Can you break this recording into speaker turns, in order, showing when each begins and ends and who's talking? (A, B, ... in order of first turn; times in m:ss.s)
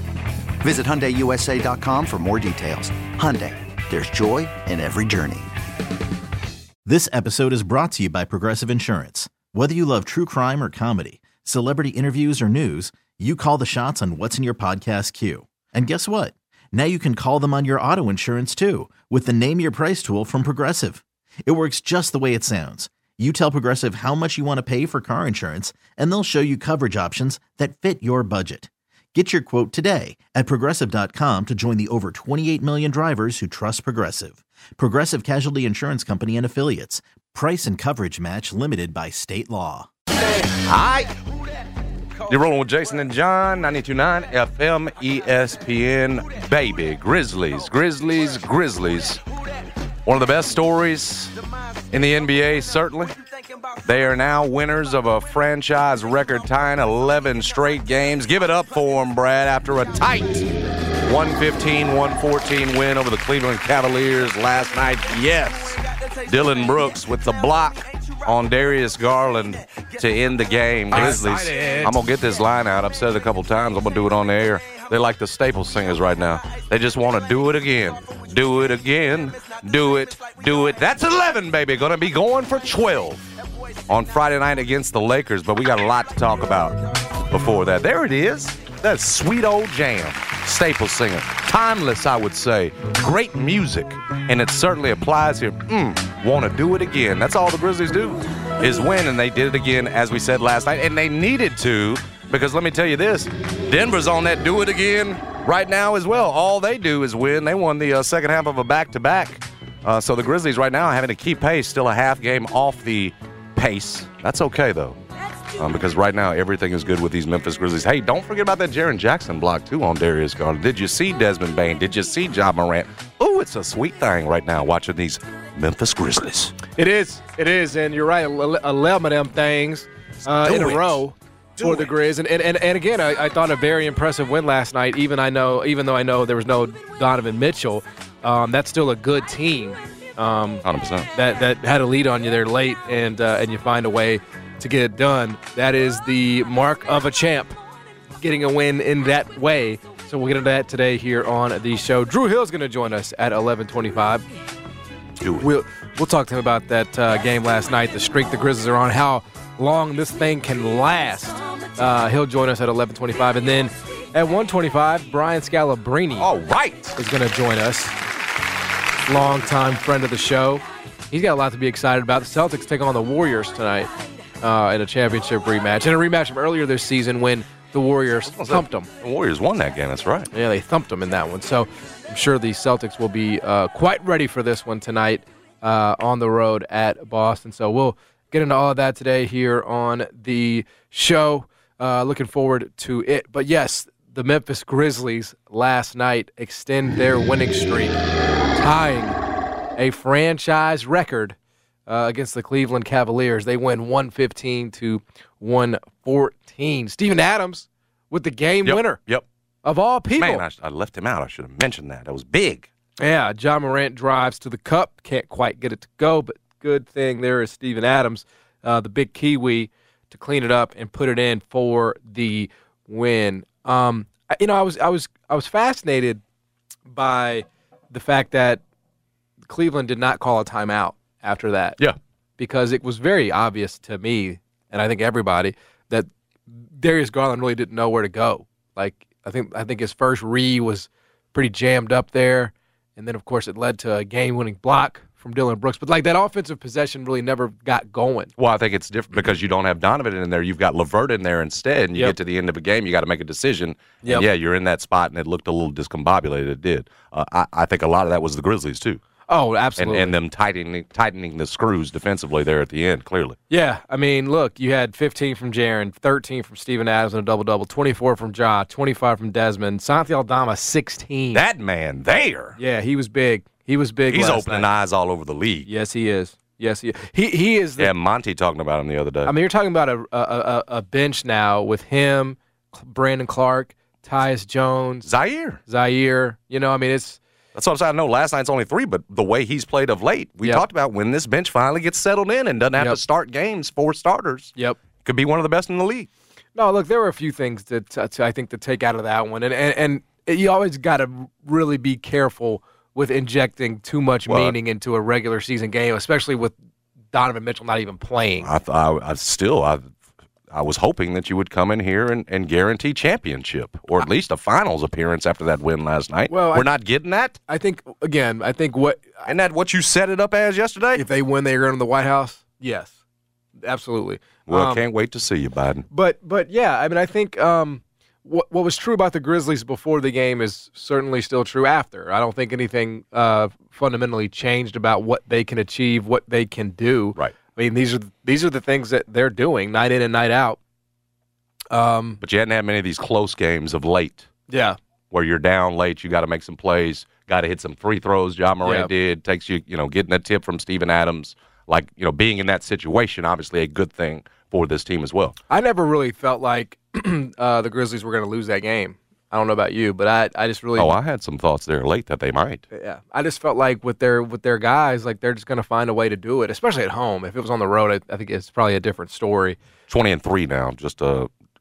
0:00.6-0:05.5 A
0:06.8-0:39.9 B
0:40.6-0:41.1 C
0:42.2-0:49.2 C
0:50.0-0:51.3 C
0:51.9-0:53.1 C
0:53.8-1:23.2 C
1:10.9-1:11.9 D
1:23.9-1:55.0 C
1:55.6-2:06.6 C
2:06.7-2:27.6 D
2:10.3-2:11.0 C
2:11.6-2:11.9 C
2:20.6-2:21.1 C
2:28.2-2:34.3 D
2:35.2-2:35.5 C
2:35.4-2:46.3 D
2:46.2-2:47.0 C
2:47.0-2:47.9 D
2:49.0-2:53.9 D
2:54.4-2:58.9 D
2:58.2-3:00.3 C
3:00.3-3:18.0 D
3:18.5-3:19.2 D
3:19.8-3:21.4 D
3:21.9-3:29.0 D
3:28.6-3:29.2 C
3:29.6-3:30.4 D
3:30.2-3:32.7 C
3:33.0-3:46.2 D
3:46.9-3:48.6 D
3:49.5-3:51.8 D
3:52.4-4:08.3 D
4:08.4-4:19.0 C
4:19.3-4:20.1 D
4:19.8-4:23.4 C
4:23.5-4:31.4 D
4:31.3-4:32.6 C
4:32.6-4:34.6 D
4:34.1-4:35.7 C
4:35.6-4:37.9 D
4:37.8-4:39.3 C
4:39.2-4:45.1 D
4:45.0-4:45.6 C
4:45.7-4:47.2 D
4:47.5-4:56.1 C
4:56.6-5:06.5 D
5:04.3-5:04.6 C
5:07.1-5:08.5 D
5:08.4-5:09.9 C
5:10.5-5:17.4 C
5:16.3-5:16.7 D
5:17.5-5:19.2 D
5:19.2-5:21.0 C
5:20.9-5:22.9 D
5:23.6-5:24.8 D
5:24.5-5:25.8 C
5:25.9-5:40.6 D
5:41.7-5:42.2 D
5:42.2-5:44.3 C
5:44.5-5:44.8 D
5:45.1-5:55.4 C
5:48.6-5:48.9 D
5:55.5-6:00.9 D
6:00.8-6:02.6 C
6:02.7-6:09.6 D
6:09.9-6:11.3 C